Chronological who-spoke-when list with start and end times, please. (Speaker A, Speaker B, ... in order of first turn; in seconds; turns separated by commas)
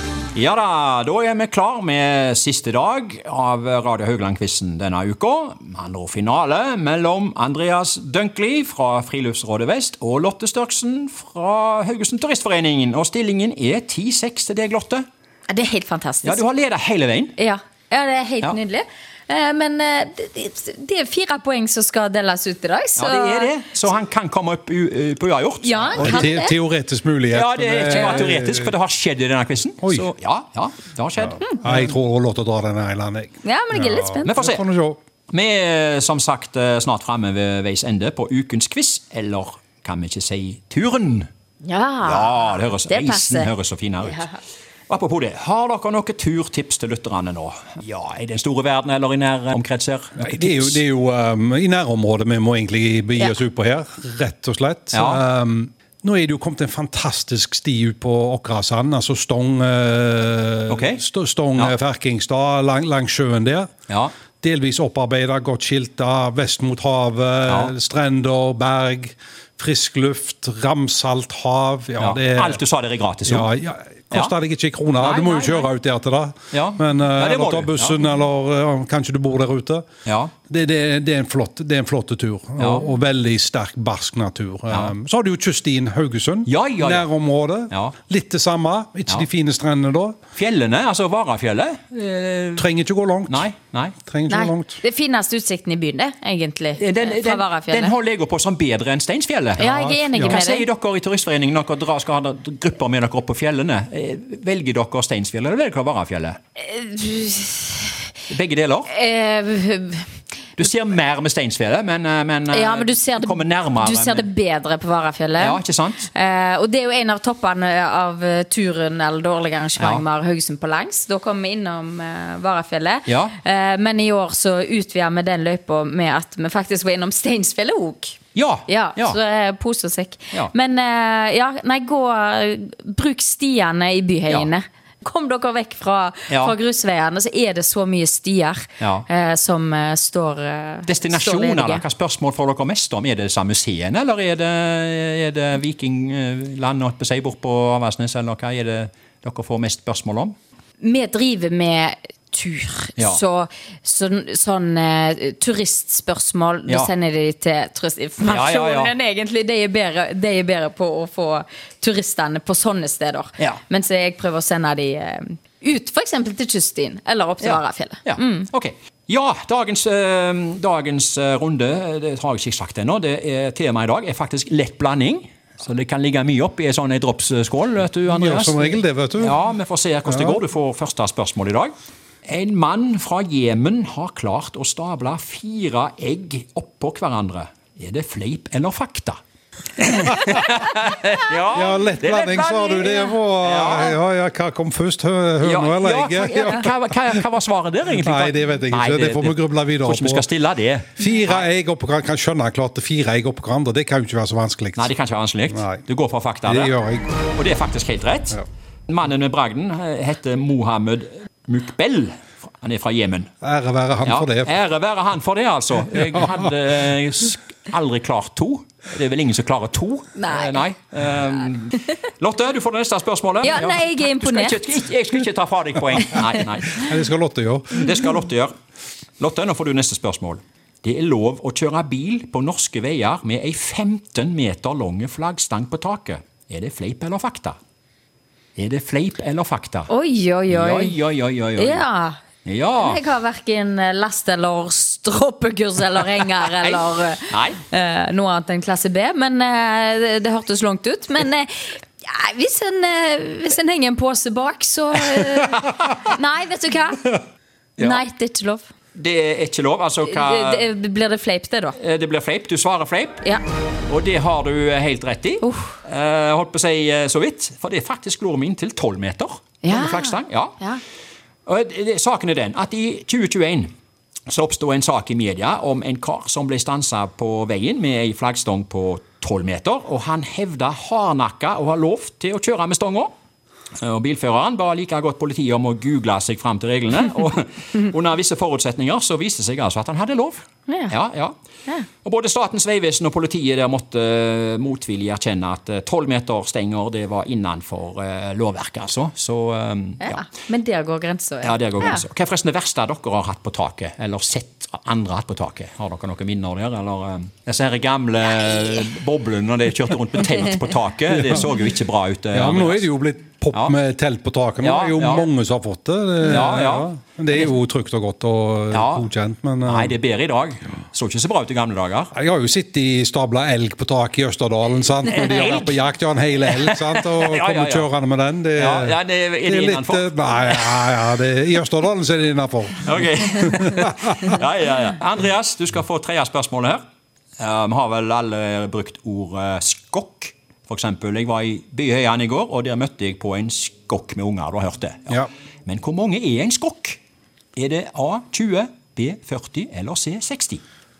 Speaker A: 0.3-15.0, Speaker B: 15.5-16.4, Speaker A: 16.2-17.4, Speaker B: 17.4-23.5, Speaker A: 22.9-26.3, Speaker B: 25.6-26.6, Speaker C: 26.0-28.7, Speaker A: 27.3-31.9, Speaker C: 29.8-30.1, Speaker C: 31.4-35.0, Speaker B: 33.4-34.3, Speaker A: 34.2-34.6, Speaker A: 35.3-41.3, Speaker B: 41.6-43.5, Speaker A: 42.0-44.2, Speaker B: 44.0-44.4, Speaker A: 44.9-50.8, Speaker C: 50.2-63.7, Speaker A: 54.9-55.2, Speaker A: 60.7-61.0, Speaker C: 64.4-72.6, Speaker A: 67.5-67.7, Speaker A: 72.0-73.5, Speaker C: 73.2-79.8, Speaker A: 75.0-75.7, Speaker A: 76.5-78.0, Speaker A: 80.0-80.3, Speaker C: 80.5-90.2, Speaker A: 82.6-82.9, Speaker A: 86.5-87.1, Speaker A: 90.3-92.7, Speaker C: 92.6-93.5, Speaker A: 93.3-94.0, Speaker C: 94.0-94.8, Speaker B: 94.3-98.0, Speaker A: 96.8-106.4, Speaker B: 99.6-100.7, Speaker C: 99.6-100.3, Speaker B: 106.6-108.0, Speaker A: 108.3-108.9, Speaker B: 108.9-110.1, Speaker A: 110.6-114.2, Speaker B: 112.5-141.8, Speaker A: 115.4-116.1, Speaker A: 123.1-123.4, Speaker A: 128.3-129.2, Speaker A: 136.3-136.5, Speaker A: 138.8-139.1, Speaker A: 140.8-150.3, Speaker B: 150.8-168.5, Speaker A: 158.2-158.9, Speaker A: 167.4-181.7, Speaker C: 178.1-179.4, Speaker C: 180.1-180.4, Speaker A: 182.2-189.2, Speaker A: 189.8-194.0, Speaker C: 191.5-196.7, Speaker A: 195.4-201.4, Speaker C: 197.9-200.2, Speaker C: 201.0-204.9, Speaker A: 204.8-206.7, Speaker C: 205.5-205.8, Speaker C: 206.4-207.2, Speaker A: 207.3-213.3, Speaker C: 213.4-214.5, Speaker A: 214.0-227.0, Speaker B: 220.1-220.6, Speaker B: 223.4-224.6, Speaker C: 226.7-228.0, Speaker A: 227.7-228.5, Speaker A: 229.2-237.6, Speaker A: 238.6-239.9, Speaker B: 239.9-241.0, Speaker A: 240.5-241.8, Speaker B: 241.6-242.2, Speaker A: 242.4-243.0, Speaker B: 242.8-257.2, Speaker A: 246.6-247.6, Speaker B: 257.8-258.7, Speaker A: 258.9-260.7, Speaker B: 260.1-261.8, Speaker A: 261.8-263.2, Speaker A: 263.9-270.6, Speaker B: 265.4-265.7, Speaker B: 269.6-270.8, Speaker A: 271.4-273.7, Speaker A: 274.3-283.1, Speaker A: 283.8-291.3, Speaker B: 290.7-290.9, Speaker A: 292.0-300.3, Speaker B: 300.0-302.0, Speaker A: 301.4-312.8, Speaker C: 311.1-311.5, Speaker C: 312.3-319.9, Speaker A: 314.6-315.3, Speaker A: 316.2-317.5, Speaker A: 318.7-319.1, Speaker A: 319.6-322.1, Speaker C: 322.1-333.9, Speaker A: 325.1-325.8, Speaker A: 326.4-327.9, Speaker A: 328.6-331.0, Speaker A: 332.8-336.8, Speaker A: 337.4-347.0, Speaker A: 347.6-350.6